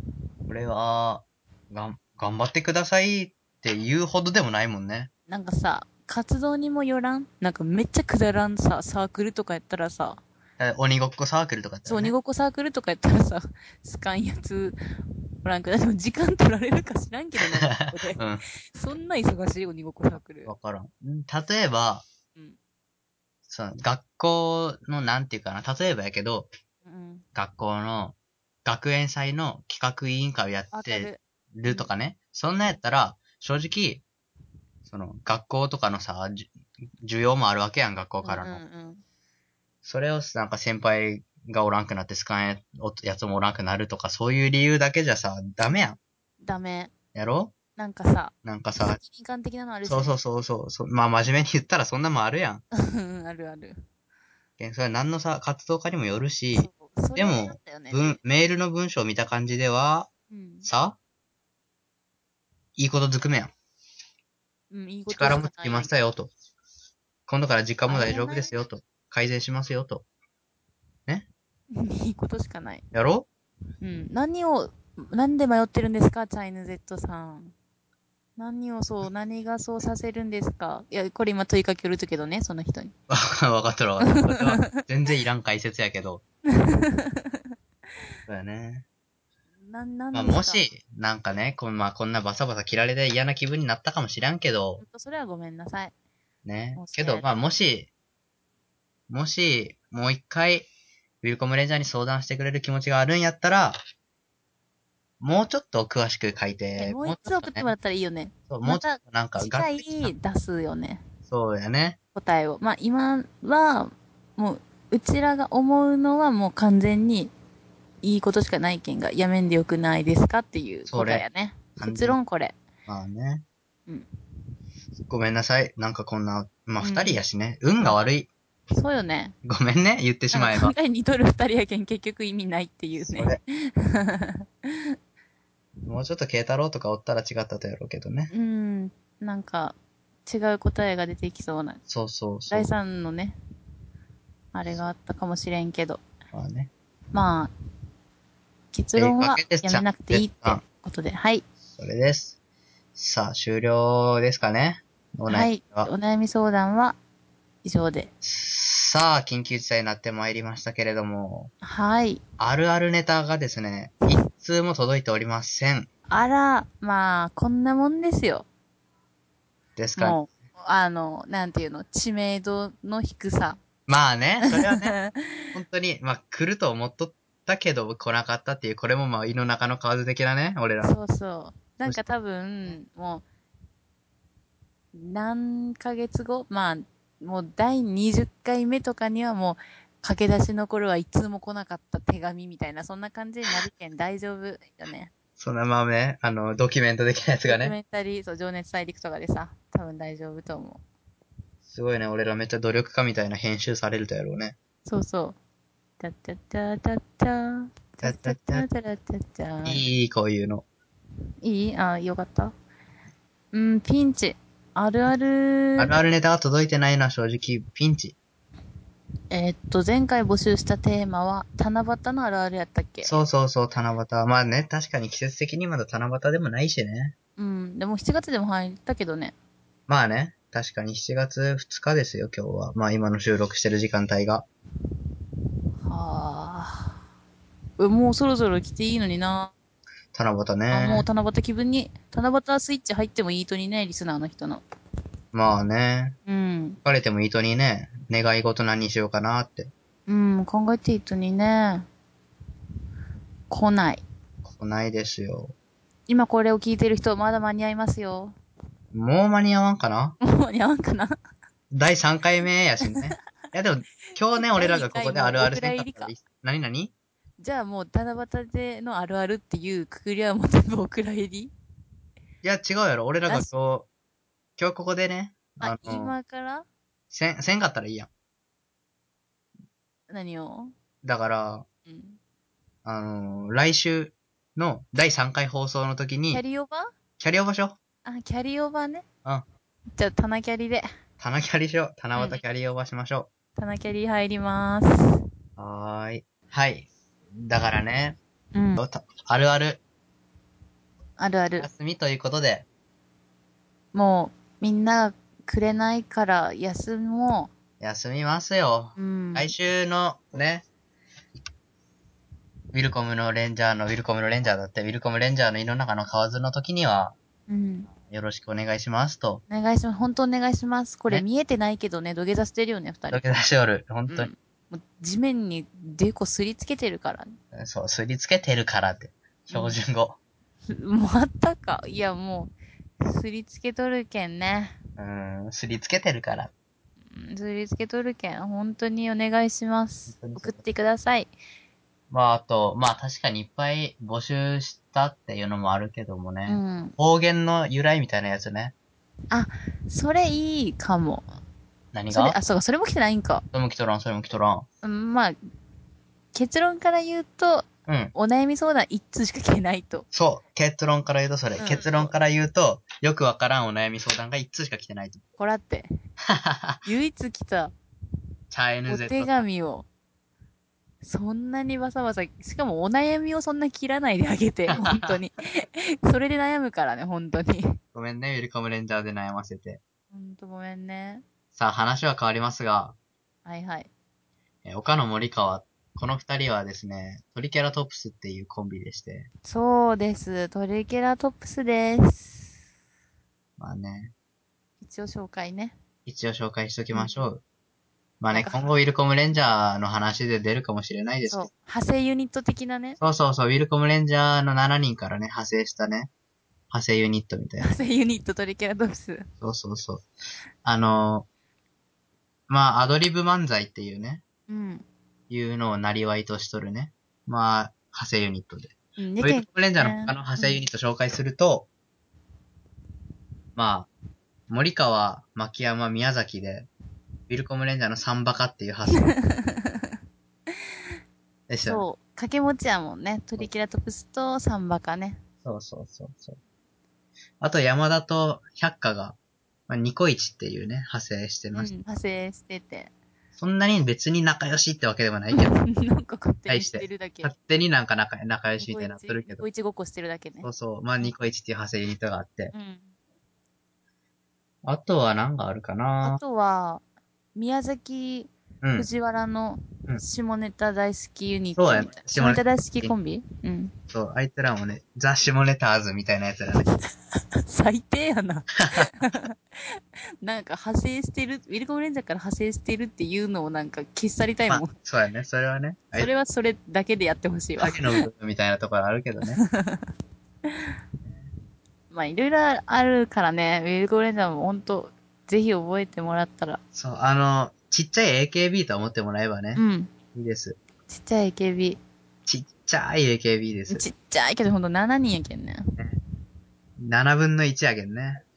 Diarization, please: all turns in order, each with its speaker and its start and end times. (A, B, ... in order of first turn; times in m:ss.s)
0:00.5-0:05.1 A
0:05.3-0:10.2 B
0:10.6-0:12.1 A
0:11.9-0:14.8 B
0:15.4-0:20.5 B
0:17.4-0:18.4 A
0:20.1-0:22.1 A
0:23.5-0:26.5 A
0:26.8-0:27.2 B
0:27.4-0:34.0 A
0:30.7-0:31.9 B
0:34.9-0:38.6 A
0:38.2-0:39.0 B
0:39.8-0:46.0 A
0:46.4-0:46.9 B
0:47.1-0:47.5 A
0:47.8-0:48.3 B
0:48.4-0:49.0 A
0:48.8-0:50.2 B
0:49.9-0:52.6 A
0:52.7-0:53.8 B
0:54.6-1:00.1 A
0:56.6-0:58.2 B
1:00.3-1:00.7 B
1:00.6-1:01.0 A
1:02.8-1:03.5 A
1:04.7-1:05.9 B
1:05.1-1:06.3 A
1:07.3-1:10.0 A
1:07.9-1:08.5 B
1:11.7-1:12.8 B
1:12.9-1:13.3 A
1:13.8-1:17.5 B
1:18.4-1:22.9 B
1:23.1-1:26.2 A
1:24.2-1:24.7 B
1:26.5-1:27.5 B
1:28.3-1:28.8 A
1:29.6-1:30.6 B
1:30.1-1:34.8 A
1:34.8-1:35.9 B
1:36.4-1:37.9 A
1:36.8-1:37.3 B
1:39.1-1:40.7 A
1:41.2-1:43.8 A
1:45.2-1:47.7 A
1:46.8-1:51.0 B
1:48.5-1:50.1 A
1:51.3-1:52.0 A
1:52.2-1:57.3 B
1:58.0-2:02.6 B
2:00.9-2:01.2 A
2:01.8-2:02.2 A
2:02.9-2:03.4 A
2:05.1-2:08.3 A
2:06.8-2:07.2 B
2:08.7-2:09.4 B
2:09.4-2:10.7 A
2:10.3-2:14.9 B
2:13.0-2:13.4 A
2:15.9-2:18.3 A
2:18.3-2:21.8 B
2:21.9-2:22.7 A
2:22.5-2:23.4 B
2:24.5-2:26.0 B
2:26.3-2:26.7 A
2:27.1-2:27.5 B
2:28.7-2:31.4 B
2:29.0-2:30.6 A
2:31.8-2:32.4 A
2:33.0-2:35.9 A
2:35.3-2:37.0 B
2:37.6-2:38.1 B
2:38.2-2:41.5 A
2:41.6-2:42.2 B
2:42.4-2:45.9 A
2:46.1-2:48.4 B
2:49.8-2:50.2 A
2:50.0-2:53.6 B
2:53.9-2:54.9 A
2:54.5-2:55.6 B
2:55.5-3:01.0 A
3:00.8-3:03.2 B
3:04.9-3:15.1 B
3:15.4-3:17.8 A
3:17.5-3:20.8 B
3:21.7-3:24.6 A
3:24.8-3:25.4 B
3:26.0-3:29.8 B
3:28.0-3:28.6 A
3:29.6-3:30.7 A
3:31.4-3:32.5 B
3:33.5-3:35.9 B
3:35.8-3:38.2 A
3:39.3-3:43.1 B
3:43.0-3:47.2 A
3:47.4-3:49.3 B
3:49.9-3:54.5 A
3:55.8-3:57.0 B
3:57.8-3:59.5 B
4:00.1-4:01.0 A
4:00.7-4:04.6 B
4:05.3-4:06.2 A
4:06.3-4:06.8 B
4:06.8-4:09.7 A
4:10.1-4:11.9 B
4:13.5-4:14.0 B
4:14.4-4:15.6 A
4:16.1-4:18.4 B
4:18.9-4:20.2 A
4:20.2-4:21.2 B
4:21.7-4:26.9 A
4:24.3-4:26.1 B
4:27.4-4:31.5 B
4:32.4-4:33.9 A
4:34.6-4:36.1 A
4:35.6-4:36.7 B
4:37.1-4:38.1 A
4:40.1-4:40.7 B
4:41.0-4:41.7 A
4:41.9-4:42.2 B
4:42.8-4:46.4 A
4:46.3-4:46.9 B
4:47.2-4:47.8 A
4:48.0-4:49.0 B
4:50.0-4:50.9 B
4:51.2-4:53.3 A
4:53.6-4:55.2 B
4:55.6-4:56.9 A
4:57.4-4:58.2 A
4:58.5-4:58.8 B
4:58.8-4:59.8 A
5:01.2-5:01.7 B
5:01.6-5:02.7 A
5:03.9-5:07.5 B
5:07.8-5:10.7 A
5:09.0-5:09.5 B
5:12.7-5:17.2 A
5:17.5-5:17.9 B
5:17.9-5:19.4 A
5:19.5-5:23.3 B
5:23.1-5:24.3 A
5:24.1-5:27.3 B
5:27.5-5:30.2 A
5:29.5-5:29.8 B
5:30.7-5:34.8 B
5:35.0-5:36.5 A
5:37.1-5:41.3 B
5:40.1-5:40.6 A
5:42.1-5:48.7 A
5:46.5-5:47.0 B
5:49.3-5:51.3 B
5:51.9-5:52.4 A
5:52.1-5:53.4 B
5:53.5-5:54.7 A
5:54.8-5:55.4 B
5:56.3-6:00.1 B
5:57.9-5:58.1 A
6:00.1-6:05.2 A
6:01.6-6:02.1 B
6:05.4-6:05.9 B
6:06.3-6:06.8 A
6:06.8-6:07.7 B
6:08.5-6:09.4 A
6:08.9-6:09.9 B
6:11.0-6:17.8 B
6:14.7-6:15.2 A
6:17.9-6:19.8 A
6:20.1-6:21.2 B
6:21.5-6:23.0 A
6:23.5-6:23.9 B
6:24.6-6:29.3 A
6:29.4-6:32.5 B
6:33.6-6:34.1 A
6:34.8-6:35.8 B
6:36.1-6:37.4 A
6:36.9-6:37.2 B
6:38.2-6:41.5 A
6:38.3-6:38.6 B
6:41.3-6:43.0 B
6:43.0-6:46.1 A
6:46.7-6:47.7 A
6:47.6-6:49.3 B
6:49.4-6:50.1 A
6:50.6-6:51.3 A
6:52.5-6:54.2 A
6:54.5-6:54.8 B
6:55.3-7:01.7 A
6:59.0-7:00.6 B
7:03.6-7:03.9 A
7:04.5-7:06.7 A
7:07.3-7:09.1 A
7:09.1-7:09.9 B
7:11.5-7:11.8 A
7:11.6-7:15.2 B
7:15.4-7:16.4 A
7:17.4-7:19.2 A
7:19.7-7:21.7 A
7:21.5-7:22.9 B
7:23.4-7:25.6 A
7:25.3-7:27.3 B
7:26.5-7:29.4 A
7:28.6-7:30.5 B
7:30.4-7:32.5 A
7:32.5-7:32.9 B
7:34.6-7:36.2 A
7:36.0-7:36.8 B
7:37.4-7:43.7 B
7:38.6-7:38.9 A
7:41.6-7:42.9 A
7:43.9-7:46.7 A
7:47.2-7:54.7 B
7:48.6-7:48.9 A
7:54.5-7:56.1 A
7:55.9-7:57.8 B
7:57.6-7:59.4 A
7:59.4-7:59.9 B
8:01.9-8:06.6 B
8:06.7-8:09.6 A
8:09.6-8:09.9 B
8:10.1-8:10.6 A
8:10.9-8:11.8 B
8:12.3-8:13.9 A
8:13.7-8:15.7 B
8:16.8-8:18.2 A